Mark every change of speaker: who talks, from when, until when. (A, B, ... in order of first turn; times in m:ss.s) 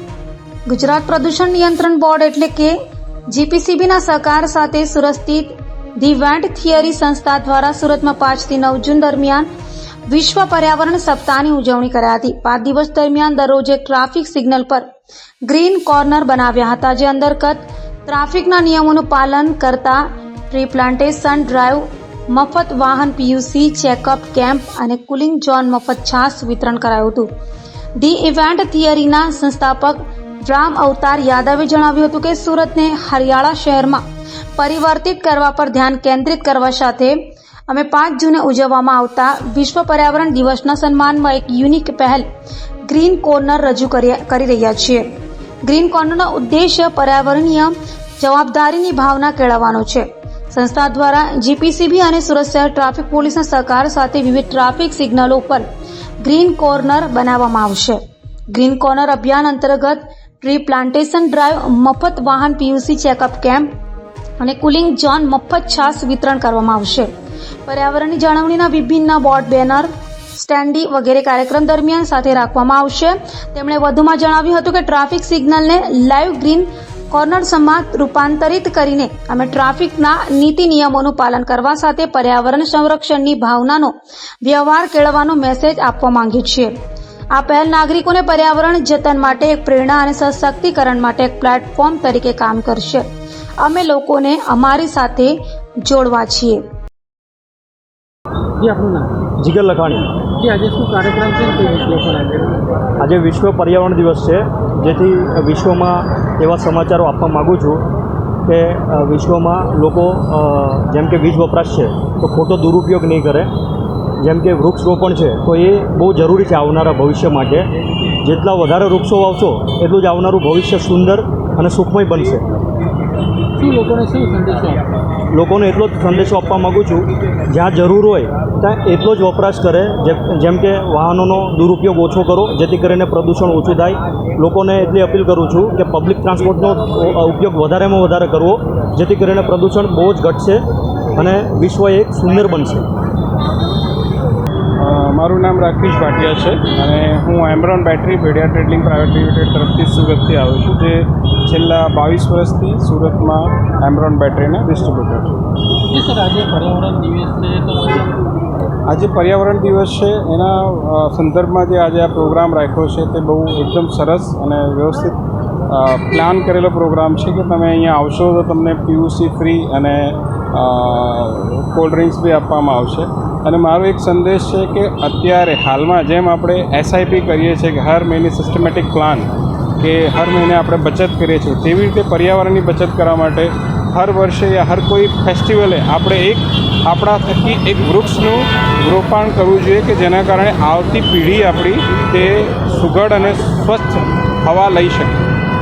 0:00.7-0:02.8 A
0:03.3-0:09.5 A
0:10.1-0:14.9 A
0:15.5-0:27.3 A
0:28.0-0:34.0 A
0:34.6-0:42.2 A
0:42.8-0:45.1 A
0:45.6-0:55.6 A
0:56.2-0:58.0 A
0:58.5-1:03.7 A
1:04.4-1:07.1 A
1:07.6-1:26.7 A
1:27.3-1:33.1 A
1:33.6-1:36.6 A
1:38.6-1:39.1 B
1:39.4-1:40.0 C
1:40.4-1:42.6 B
1:43.0-1:47.9 C
1:48.5-1:53.5 C
1:54.2-1:57.6 C
1:58.2-2:02.4 C
2:03.6-2:04.8 B
2:05.3-2:20.6 C
2:21.2-2:22.9 C
2:24.8-2:35.4 D
2:35.9-2:38.1 B
2:38.9-2:45.2 D
2:45.7-3:15.2 D